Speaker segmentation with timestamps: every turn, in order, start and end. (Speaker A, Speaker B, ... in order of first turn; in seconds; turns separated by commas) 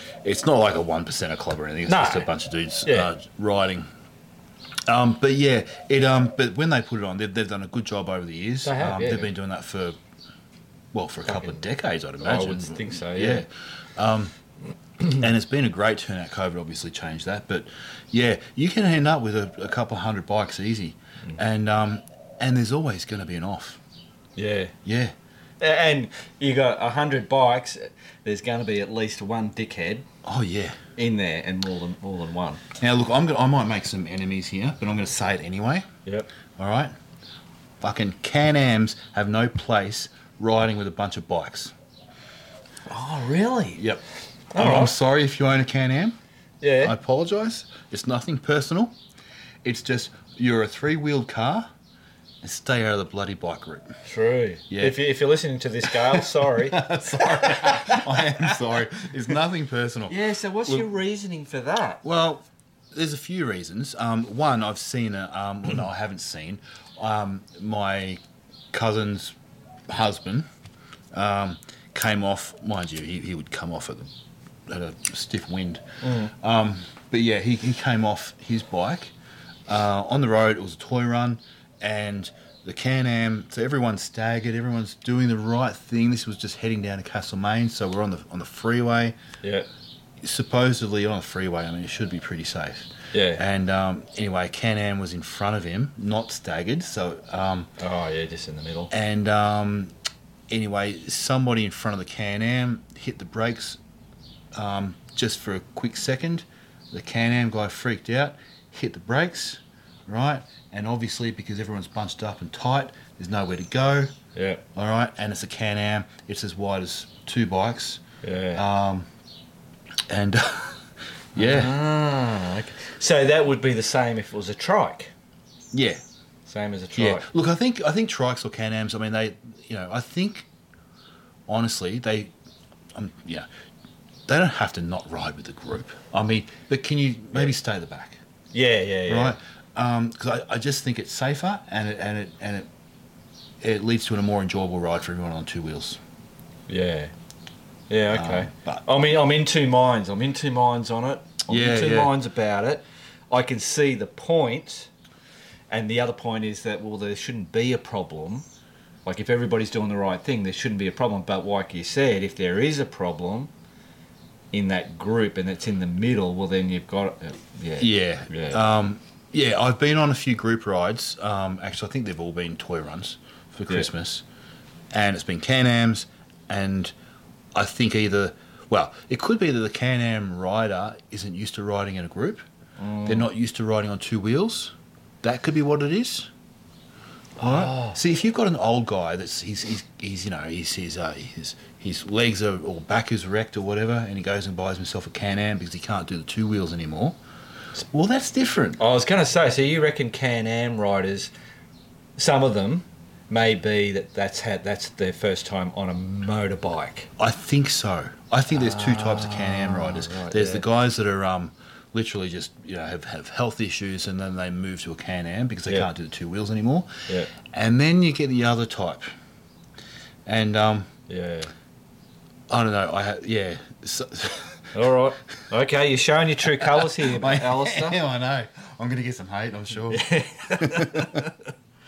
Speaker A: 0.2-3.9, Speaker B: 1.9-2.3, Speaker A: 4.9-10.0, Speaker B: 8.7-9.3, Speaker A: 10.9-14.3, Speaker B: 11.3-11.6, Speaker B: 12.2-13.4, Speaker A: 15.0-23.8, Speaker B: 24.4-24.7, Speaker A: 24.9-25.1, Speaker B: 25.6-30.1, Speaker A: 30.2-30.8, Speaker B: 31.0-32.6, Speaker A: 32.8-35.9, Speaker A: 36.6-36.9, Speaker A: 37.8-41.7, Speaker B: 42.9-43.8, Speaker A: 43.8-44.0, Speaker B: 44.5-44.9, Speaker A: 44.6-46.2, Speaker B: 46.6-47.0, Speaker A: 46.8-49.0, Speaker A: 49.6-51.7, Speaker A: 52.4-53.9, Speaker B: 54.0-58.4, Speaker A: 54.7-55.0, Speaker A: 55.9-60.9, Speaker B: 60.1-62.0, Speaker A: 62.0-68.2, Speaker A: 68.7-69.3, Speaker A: 69.9-70.5, Speaker A: 71.1-74.1, Speaker A: 74.7-79.1, Speaker B: 76.0-76.3, Speaker A: 79.7-89.2, Speaker A: 90.2-97.7, Speaker B: 93.1-93.4, Speaker B: 97.8-98.9, Speaker A: 98.9-99.9, Speaker A: 100.5-103.8, Speaker A: 104.5-114.1, Speaker B: 114.3-114.6, Speaker A: 114.8-118.0, Speaker B: 118.2-118.6, Speaker A: 118.5-119.1, Speaker A: 120.1-120.8, Speaker A: 121.3-121.8, Speaker B: 121.4-125.1, Speaker A: 125.7-126.0, Speaker B: 126.5-127.3, Speaker A: 127.0-130.5, Speaker A: 131.5-132.3, Speaker A: 132.9-133.5, Speaker A: 134.3-138.2, Speaker B: 138.5-139.4, Speaker A: 139.1-142.7, Speaker A: 143.6-146.0, Speaker B: 146.7-147.1, Speaker B: 147.9-154.9, Speaker A: 148.1-148.8, Speaker A: 151.5-152.1, Speaker B: 155.7-158.5, Speaker B: 159.1-163.5, Speaker B: 164.5-168.6, Speaker A: 167.8-174.2, Speaker A: 174.9-176.9, Speaker A: 177.6-182.4, Speaker B: 182.8-183.3, Speaker A: 183.1-186.3, Speaker B: 187.4-188.0, Speaker A: 187.4-197.2, Speaker A: 197.8-198.8, Speaker B: 198.8-201.3, Speaker B: 202.2-207.1, Speaker A: 207.2-219.1, Speaker B: 208.5-210.7, Speaker A: 220.3-220.9, Speaker B: 221.1-221.5, Speaker A: 222.5-224.8, Speaker B: 224.7-228.0, Speaker A: 226.6-231.3, Speaker B: 229.9-231.4